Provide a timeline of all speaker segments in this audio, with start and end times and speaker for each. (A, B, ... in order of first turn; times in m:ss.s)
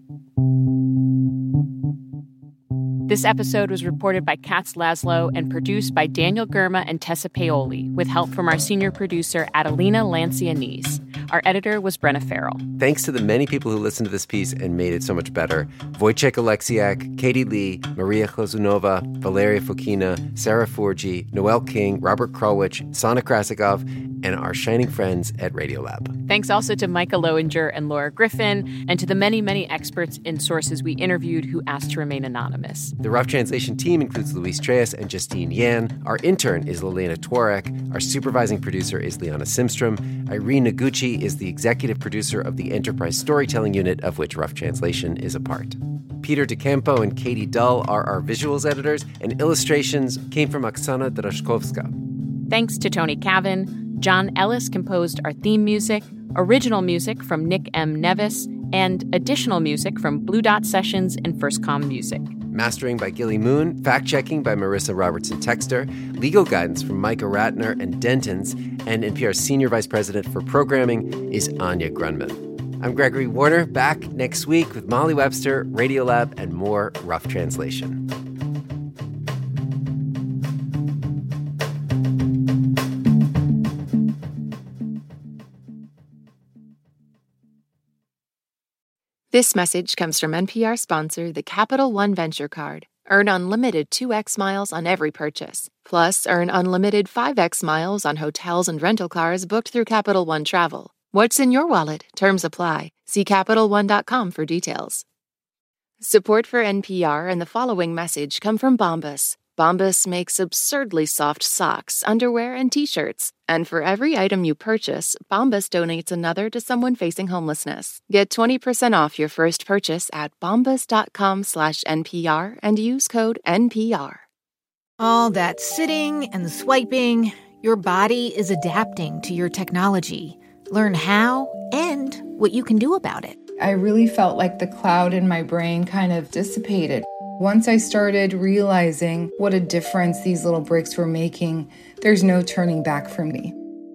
0:03.1-0:12.6 A
0:12.8-0:26.1 B
0:26.2-0:32.9 A
0:33.0-0:51.9 B
0:52.5-1:02.3 A
1:02.5-1:18.0 B
1:29.3-1:45.0 C
1:46.0-2:04.2 C
2:05.0-2:13.4 D
2:13.6-2:23.5 E